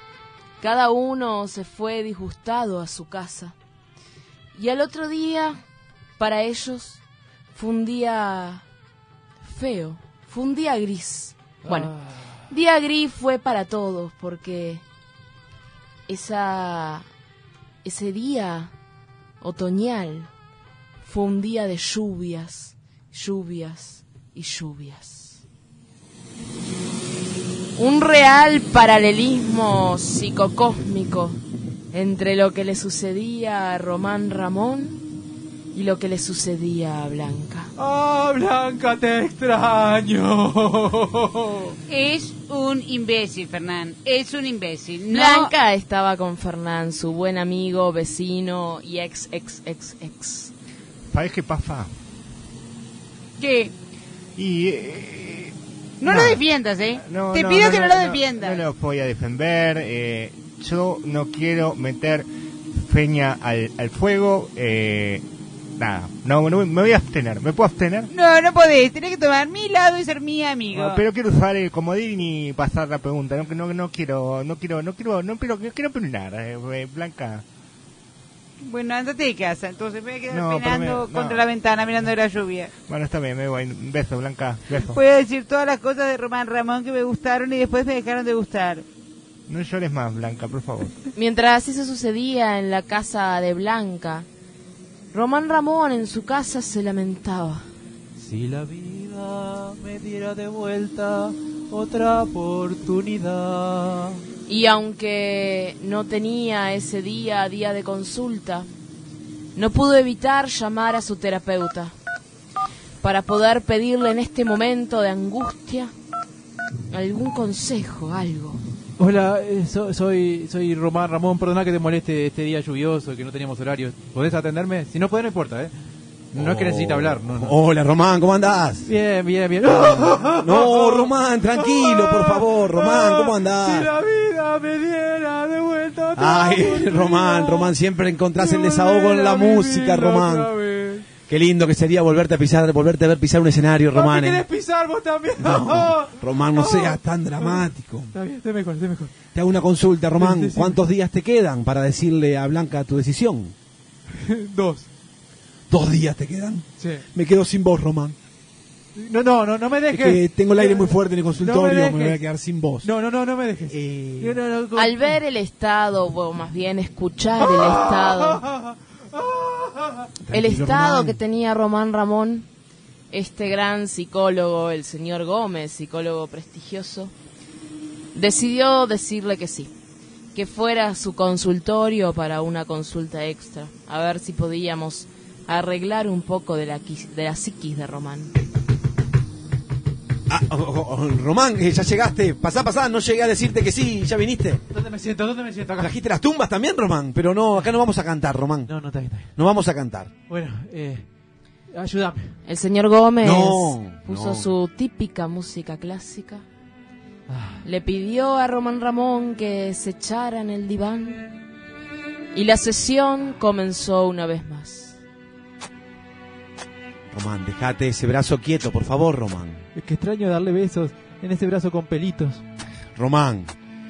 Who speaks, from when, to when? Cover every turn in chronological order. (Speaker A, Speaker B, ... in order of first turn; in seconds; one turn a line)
Speaker A: 0.6-3.5
Speaker A: 4.5-5.6
Speaker A: 6.2-7.0
Speaker A: 7.5-8.6
Speaker A: 9.4-11.9
Speaker B: 11.6-12.3
Speaker A: 12.5-14.8
Speaker A: 16.1-17.1
Speaker A: 17.8-18.7
Speaker A: 19.4-20.3
Speaker A: 21.0-25.4
Speaker A: 27.8-31.4
Speaker A: 31.9-35.0
Speaker A: 35.7-37.7
Speaker B: 37.8-41.8
Speaker C: 41.9-45.5
Speaker A: 45.1-50.5
Speaker D: 51.1-51.9
Speaker C: 53.4-53.7
Speaker D: 54.4-56.4
Speaker C: 56.0-58.7
Speaker D: 57.0-65.2
Speaker D: 65.8-68.1
Speaker C: 68.1-71.0
Speaker D: 70.7-77.4
Speaker C: 78.6-82.7
Speaker D: 80.3-81.5
Speaker D: 82.9-85.0
Speaker C: 84.7-88.8
Speaker D: 89.5-91.0
Speaker A: 91.1-94.3
Speaker A: 95.1-97.7
Speaker B: 98.2-104.2
Speaker A: 104.5-108.7
Speaker A: 109.5-111.9
Speaker A: 113.0-115.9
Speaker A: 116.9-118.6
Speaker B: 119.0-125.7
Speaker B: 126.3-127.5
Speaker E: 126.3-128.9
Speaker B: 128.8-137.7
Speaker E: 129.7-133.9
Speaker E: 136.2-140.5
Speaker B: 138.3-141.1
Speaker E: 141.2-144.4
Speaker B: 143.9-149.2
Speaker E: 145.4-148.1
Speaker E: 149.3-153.5
Speaker B: 150.2-150.8
Speaker B: 154.1-154.9
Speaker E: 155.7-158.2
Speaker B: 156.8-157.0
Speaker B: 158.9-162.2
Speaker E: 159.9-162.9
Speaker B: 162.8-165.2
Speaker E: 163.7-164.4
Speaker A: 164.7-168.4
Speaker B: 167.4-170.1
Speaker E: 170.2-171.2
Speaker A: 170.3-172.5
Speaker A: 173.1-177.1
Speaker A: 178.1-179.7
Speaker A: 180.3-188.3
Speaker E: 190.3-194.6
Speaker B: 194.7-195.9
Speaker E: 195.8-198.7
Speaker B: 198.7-199.3
Speaker E: 199.3-200.1
Speaker B: 200.3-201.1
Speaker B: 201.7-202.3
Speaker A: 202.5-206.4
Speaker E: 203.2-204.5
Speaker B: 207.3-207.6
Speaker A: 207.6-211.3
Speaker A: 212.3-215.0
Speaker E: 217.1-219.6
Speaker B: 219.7-222.4
Speaker E: 222.9-223.5